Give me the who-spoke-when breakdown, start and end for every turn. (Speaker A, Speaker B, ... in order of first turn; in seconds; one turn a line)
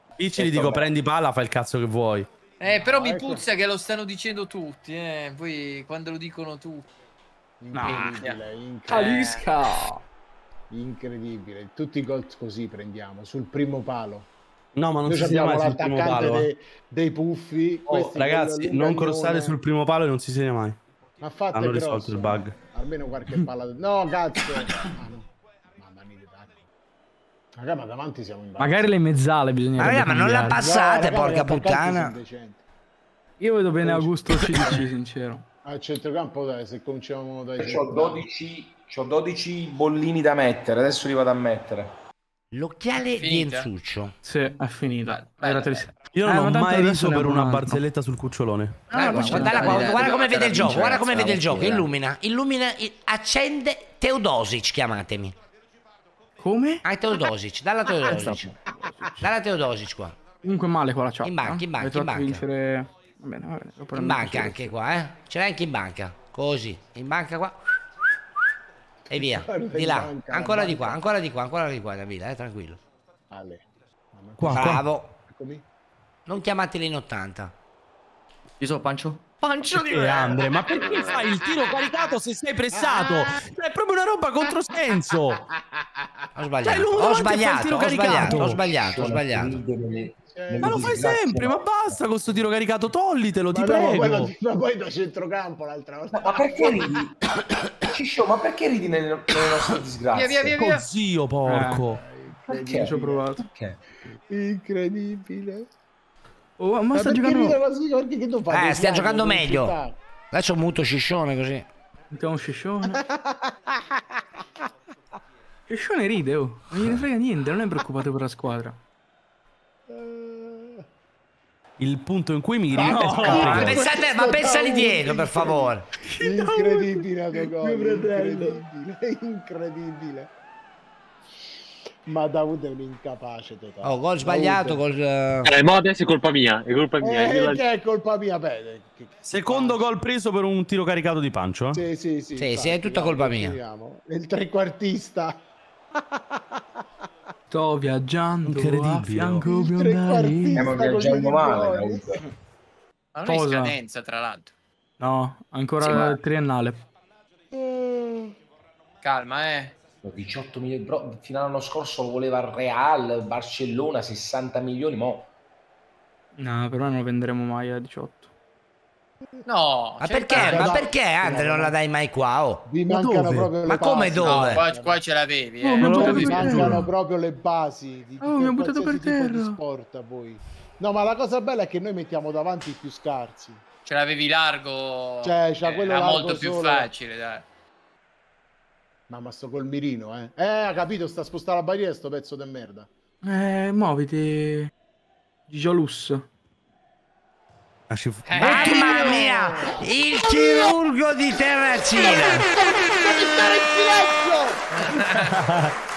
Speaker A: 0.2-2.3
Speaker B: 0.4-0.9
Speaker C: 2.6-6.8
Speaker D: 2.6-3.5
Speaker D: 7.6-9.2
Speaker E: 7.7-8.2
Speaker C: 7.8-9.4
Speaker E: 8.9-10.0
Speaker D: 10.7-14.3
Speaker A: 14.8-16.5
Speaker D: 15.0-19.6
Speaker A: 17.9-20.8
Speaker D: 21.2-26.6
Speaker A: 21.5-22.6
Speaker D: 27.6-28.9
Speaker E: 28.6-30.6
Speaker F: 29.8-32.1
Speaker D: 30.6-32.6
Speaker E: 33.4-35.4
Speaker D: 33.8-34.9
Speaker D: 35.6-38.2
Speaker B: 37.6-41.9
Speaker F: 42.5-44.1
Speaker C: 43.2-43.7
Speaker E: 44.2-47.8
Speaker C: 45.0-45.9
Speaker A: 46.1-48.9
Speaker E: 48.9-50.0
Speaker G: 48.9-51.9
Speaker F: 48.9-55.4
Speaker C: 50.1-50.9
Speaker E: 56.4-56.8
Speaker F: 56.8-58.5
Speaker G: 58.0-58.5
Speaker F: 59.2-60.2
Speaker E: 60.4-64.7
Speaker F: 61.2-62.4
Speaker F: 63.9-67.6
Speaker F: 69.1-72.8
Speaker D: 69.1-71.0
Speaker D: 73.3-75.6
Speaker A: 74.4-74.9
Speaker F: 74.5-75.1
Speaker F: 76.3-77.5
Speaker G: 78.6-81.2
Speaker A: 79.6-85.4
Speaker D: 81.1-82.0
Speaker D: 82.7-83.3
Speaker D: 84.9-86.1
Speaker F: 86.3-89.6
Speaker A: 86.6-88.6
Speaker B: 88.3-92.0
Speaker D: 90.2-91.1
Speaker A: 90.6-94.3
Speaker D: 93.5-96.9
Speaker B: 96.1-97.2
Speaker B: 97.9-100.6
Speaker C: 100.1-100.9
Speaker A: 100.6-102.0
Speaker E: 101.5-101.8
Speaker D: 101.8-103.3
Speaker B: 102.5-103.8
Speaker E: 102.8-103.4
Speaker D: 104.3-105.7
Speaker E: 106.6-107.6
Speaker D: 106.9-110.0
Speaker F: 108.5-109.8
Speaker F: 110.3-111.7
Speaker E: 112.1-113.0
Speaker D: 112.9-113.5
Speaker E: 115.7-118.8
Speaker D: 119.9-120.8
Speaker A: 121.8-123.8
Speaker D: 122.7-130.3
Speaker E: 122.8-123.8
Speaker F: 123.2-125.9
Speaker E: 126.0-128.6
Speaker D: 132.1-134.8
Speaker F: 133.8-135.5
Speaker H: 135.4-137.7
Speaker D: 137.0-139.9
Speaker A: 139.2-141.8
Speaker D: 141.7-145.4
Speaker F: 142.4-143.6
Speaker E: 147.5-150.7
Speaker A: 148.5-149.5
Speaker D: 149.4-152.1
Speaker B: 150.6-152.2
Speaker C: 153.2-154.5
Speaker E: 153.3-153.8
Speaker E: 155.0-156.8
Speaker C: 155.8-156.1
Speaker B: 155.8-156.1
Speaker D: 157.5-158.3
Speaker C: 159.0-159.7
Speaker B: 160.0-165.3
Speaker E: 166.3-168.3
Speaker C: 169.5-170.9
Speaker F: 170.0-172.7
Speaker D: 170.3-171.8
Speaker D: 172.7-175.0
Speaker A: 172.9-173.5
Speaker F: 173.6-174.6
Speaker C: 174.2-176.5
Speaker E: 175.6-176.8
Speaker D: 175.8-183.6
Speaker A: 176.0-176.8
Speaker E: 178.2-179.6
Speaker C: 183.8-187.4
Speaker D: 185.2-186.9
Speaker D: 189.1-192.9
Speaker E: 193.2-194.7
Speaker E: 195.5-196.3
Speaker A: 197.9-198.9
Speaker C: 198.3-199.3
Speaker F: 198.4-202.5
Speaker D: 198.6-200.8
Speaker D: 201.9-204.8
Speaker C: 204.9-205.3
Speaker A: 205.2-205.8